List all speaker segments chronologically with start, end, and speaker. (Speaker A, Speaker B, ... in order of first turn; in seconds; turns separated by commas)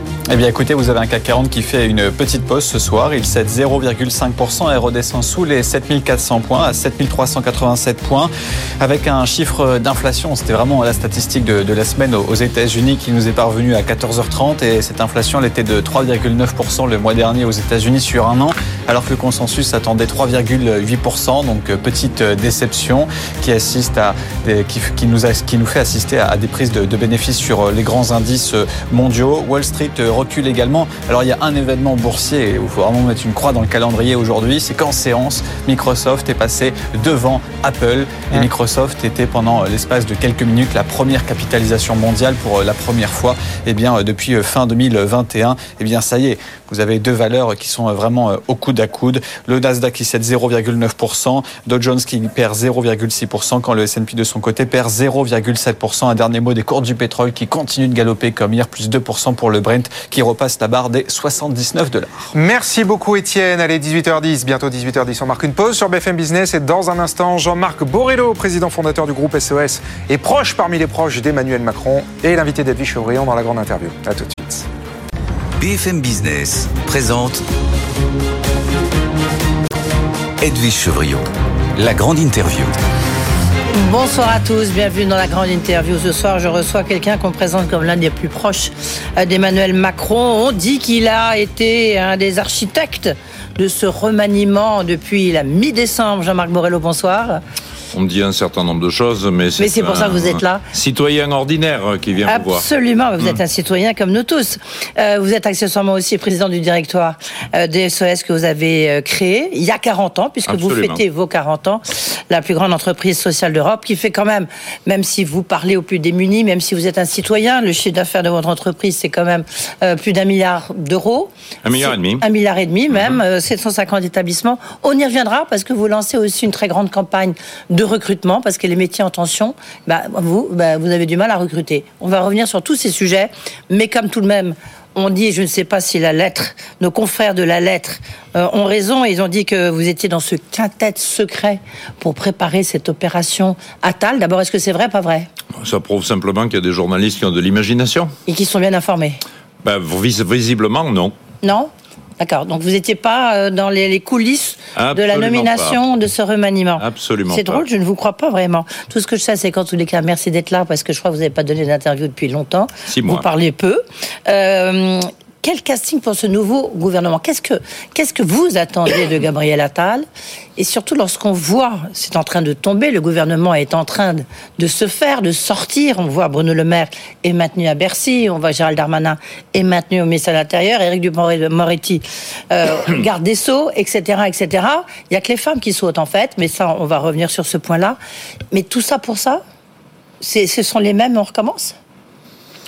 Speaker A: 0.3-62.3, Speaker B: 62.3-74.6, Speaker C: 75.6-77.4, Speaker C: 80.4-82.8, Speaker D: 83.7-97.4, Speaker E: 97.9-102.7, Speaker D: 99.6-100.6, Speaker D: 102.3-145.3, Speaker E: 110.5-111.0, Speaker E: 121.6-122.2, Speaker E: 122.9-123.2, Speaker E: 145.6-148.1, Speaker D: 148.3-149.2, Speaker E: 149.6-151.1, Speaker D: 151.4-170.1, Speaker E: 154.8-155.8, Speaker E: 156.8-157.6, Speaker E: 162.9-163.2, Speaker D: 170.6-188.0, Speaker D: 188.5-189.4, Speaker D: 190.2-191.8